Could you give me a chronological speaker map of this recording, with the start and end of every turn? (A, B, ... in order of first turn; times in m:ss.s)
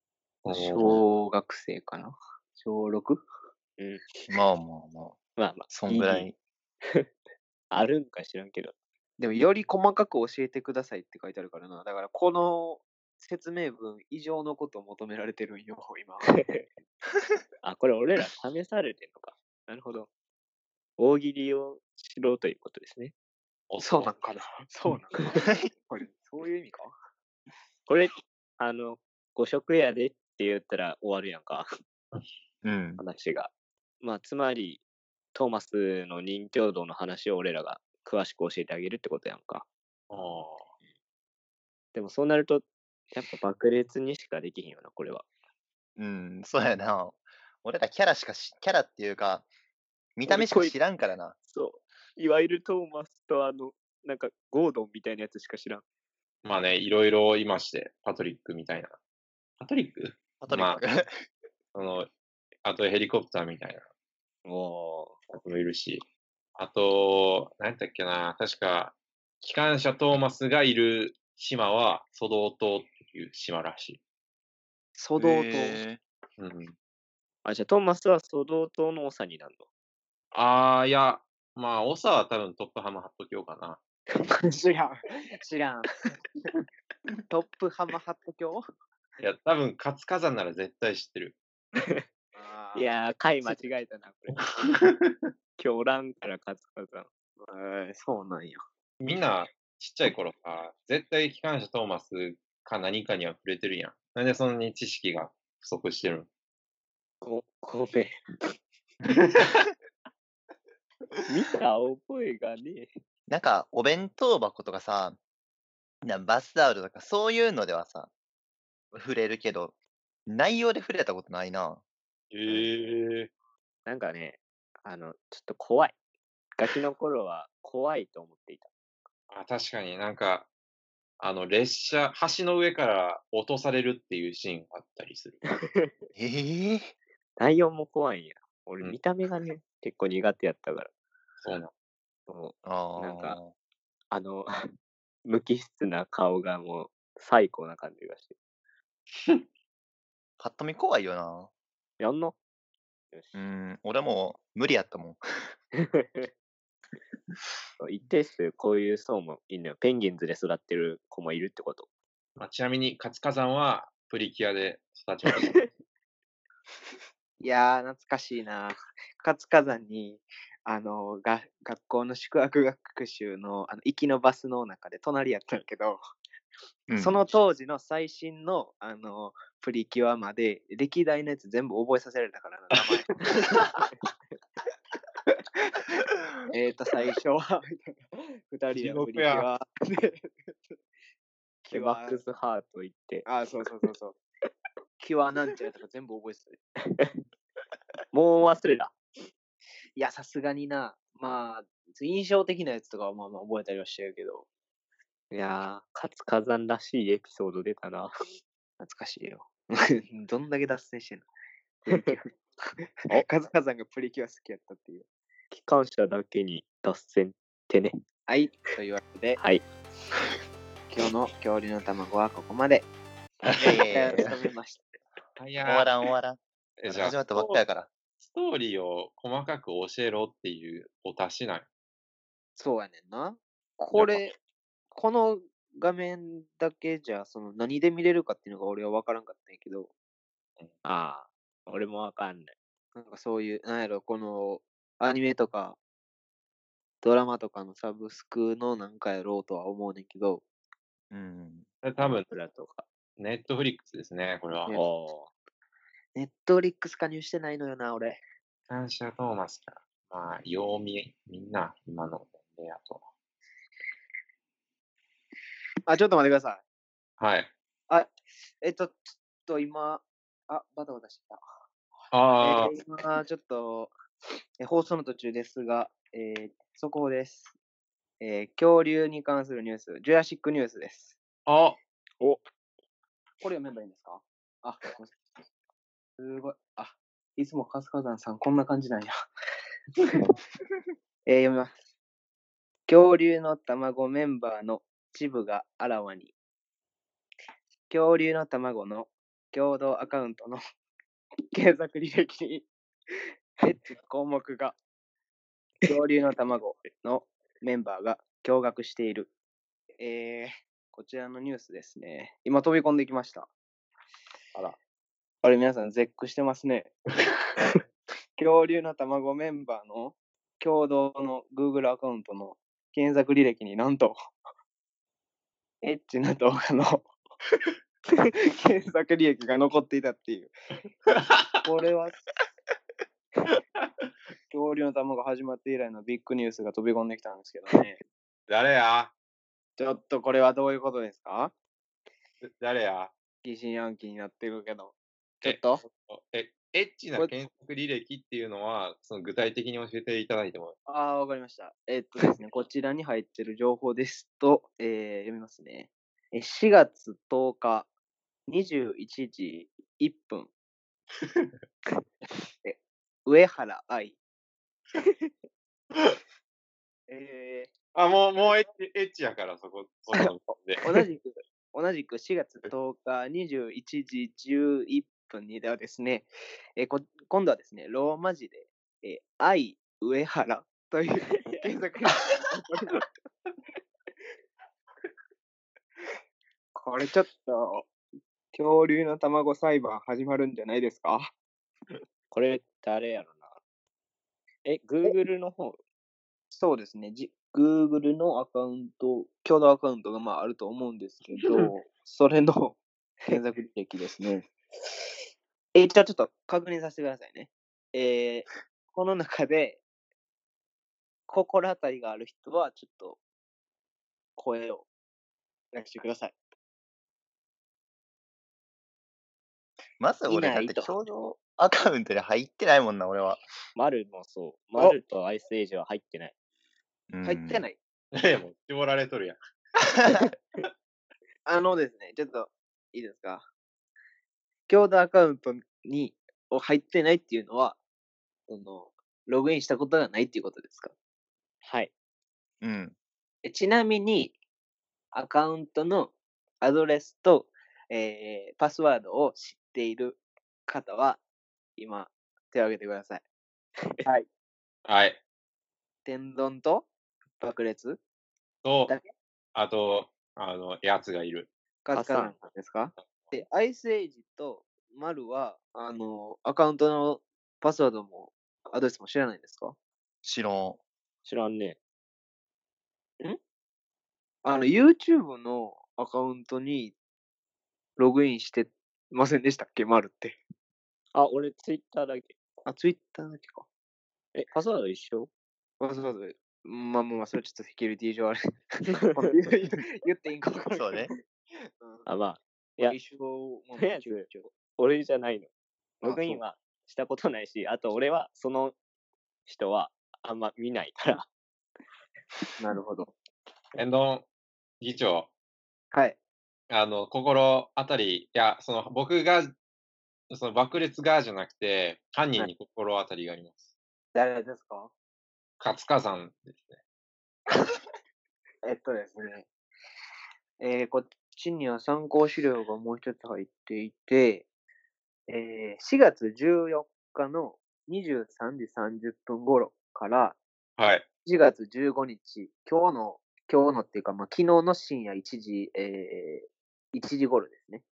0:00.4-0:01.0 A
0:00.5-0:03.2 B
0:03.8-0:04.2 C
0:04.3-0:06.4 D
0:05.4-0:06.3 C
0:07.7-0:08.7 C
0:09.2-0:16.5 B
0:16.3-0:16.7 C
0:17.6-0:20.1 C
0:21.0-0:23.1 C
0:23.7-0:24.1 A
0:23.8-0:26.9 B
0:25.4-0:25.7 D
0:27.9-0:31.7 C
0:32.6-0:33.0 D
0:33.0-0:34.8 C
0:35.3-0:39.7 C
0:40.1-0:40.7 A
0:41.9-0:45.3 C
0:46.0-0:49.5 D
0:50.2-0:51.4 D
0:50.3-0:50.8 C
0:51.5-0:55.8 C
0:56.4-0:59.0 A
0:59.6-1:00.8 A
1:00.4-1:01.1 D
1:01.7-1:02.1 A
1:02.6-1:03.9 A
1:04.4-1:05.2 C
1:05.3-1:06.0 A
1:06.6-1:14.0 A
1:15.0-1:15.8 B
1:15.2-1:16.0 D
1:16.4-1:16.8 A
1:17.4-1:19.6 C
1:20.3-1:23.8 A
1:24.2-1:25.9 B
1:27.3-1:28.7 B
1:29.2-1:31.4 A
1:31.8-1:32.0 C
1:32.4-1:33.8 B
1:32.8-1:34.7 C
1:34.3-1:35.2 A
1:35.6-1:37.1 C
1:37.4-1:38.6 B
1:39.0-1:46.3 A
1:47.2-1:48.2 C
1:49.1-1:49.5 A
1:51.3-1:52.9 C
1:53.3-1:55.2 D
1:56.0-1:58.1 D
1:58.9-1:59.8 D
2:00.3-2:01.8 D
2:02.3-2:03.3 A
2:02.4-2:02.8 C
2:03.9-2:06.0 C
2:06.6-2:08.7 C
2:09.3-2:10.5 A
2:11.2-2:15.4 A
2:15.5-2:15.9 C
2:16.2-2:16.9 D
2:17.4-2:20.9 C
2:21.4-2:21.7 A
2:22.3-2:23.4 C
2:22.6-2:23.5 D
2:24.1-2:24.5 C
2:25.3-2:28.4 C
2:30.4-2:31.5 D
2:32.0-2:32.4 C
2:33.3-2:35.2 D
2:35.8-2:36.3 C
2:37.8-2:41.9 C
2:42.4-2:45.6 A
2:47.4-2:56.0 B
2:56.9-2:57.2 D
2:57.0-3:03.6 B
3:06.5-3:10.8 B
3:08.7-3:09.5 A
3:11.6-3:12.2 B
3:11.7-3:13.3 C
3:13.3-3:14.2 B
3:15.0-3:16.6 B
3:16.9-3:17.2 C
3:18.1-3:19.0 C
3:20.0-3:24.5 B
3:25.3-3:28.1 C
3:28.8-3:31.3 B
3:31.8-3:35.1 B
3:31.9-3:32.2 C
3:35.5-3:37.9 C
3:38.3-3:39.4 B
3:40.9-3:42.9 B
3:43.5-3:44.3 D
3:43.6-3:44.9 B
3:45.4-3:45.9 A
3:45.6-3:47.9 D
3:46.8-3:47.6 A
3:48.2-3:51.7 A
3:52.6-3:54.4 B
3:53.9-3:54.2 A
3:54.9-3:59.9 B
4:00.8-4:02.6 C
4:03.0-4:05.8 B
4:07.0-4:10.4 B
4:11.1-4:11.7 D
4:11.8-4:12.3 A
4:12.0-4:12.8 C
4:13.2-4:14.8 A
4:14.7-4:15.3 C
4:16.2-4:18.2 B
4:18.7-4:23.0 A
4:25.9-4:26.6 B
4:27.2-4:27.5 A
4:27.9-4:31.4 B
4:32.1-4:32.7 A
4:32.4-4:33.9 B
4:34.6-4:37.5 B
4:38.2-4:41.2 B
4:41.5-4:41.8 A
4:43.4-4:45.1 B
4:46.2-4:49.1 B
4:51.3-4:51.7 B
4:52.9-4:56.3 B
4:57.9-5:00.6 B
5:01.5-5:02.7 B
5:03.6-5:04.8 B
5:05.8-5:09.3 B
5:10.0-5:13.5 B
5:15.4-5:17.8 B
5:18.4-5:24.2 B
5:25.8-5:27.1 B
5:28.2-5:30.5 B
5:31.1-5:31.6 A
5:31.6-5:32.2 B
5:34.5-5:38.0 B
5:38.5-5:39.1 A
5:39.8-5:41.5 B
5:42.4-5:43.1 A
5:43.4-5:45.8 B
5:45.4-5:50.8 A
5:50.9-5:57.9 B
5:58.5-6:00.5 B
6:02.6-6:04.2 B
6:05.0-6:05.3 C
6:07.1-6:07.7 B
6:08.0-6:10.8 A
6:10.8-6:23.1 B
6:26.8-6:27.9 B
6:28.5-6:31.3 B
6:32.3-6:33.6 C
6:34.6-6:35.8 C
6:36.5-6:44.5 B
6:45.7-6:49.8 B
6:51.3-6:53.2 B
6:54.4-6:54.9 B
6:55.7-6:56.4 B
7:00.0-7:03.4 D
7:00.3-7:01.0 B
7:03.8-7:06.3 C
7:07.1-7:07.6 D
7:07.3-7:07.8 B
7:08.1-7:09.4 A
7:10.0-7:10.3 D
7:11.5-7:13.4 B
7:14.7-7:17.8 B
7:18.5-7:20.9 B
7:21.6-7:21.9 C
7:22.6-7:22.9 D
7:23.4-7:24.4 B
7:25.1-7:31.2 B
7:31.8-7:33.2 B
7:34.9-7:35.2 A
7:36.0-7:36.9 B
7:37.4-7:38.0 B
7:38.6-7:39.0 A
7:39.6-7:41.5 A
7:41.8-7:49.8 B
7:41.9-7:42.3 C
7:50.2-7:50.8 D
7:51.2-7:51.8 C
7:54.4-7:57.0 B
7:58.0-8:00.4 B
8:01.1-8:02.3 C
8:02.7-8:03.6 B
8:04.4-8:05.3 C
8:05.8-8:11.2 B
8:10.7-8:11.1 D
8:11.8-8:12.1 B
8:12.1-8:13.0 C
8:12.8-8:14.5 B
8:13.8-8:15.5 C
8:16.0-8:18.8 C
8:16.0-8:16.4 B
8:19.5-8:21.3 C
8:22.6-8:23.1 B
8:23.8-8:24.3 A
8:24.8-8:25.3 A
8:26.7-8:29.5 A
8:30.3-8:33.7 A
8:34.1-8:34.9 B
8:35.6-8:36.8 A
8:38.6-8:39.5 B
8:40.6-8:44.5 B
8:45.3-8:50.4 B
8:50.8-8:51.0 A
8:51.2-8:57.8 B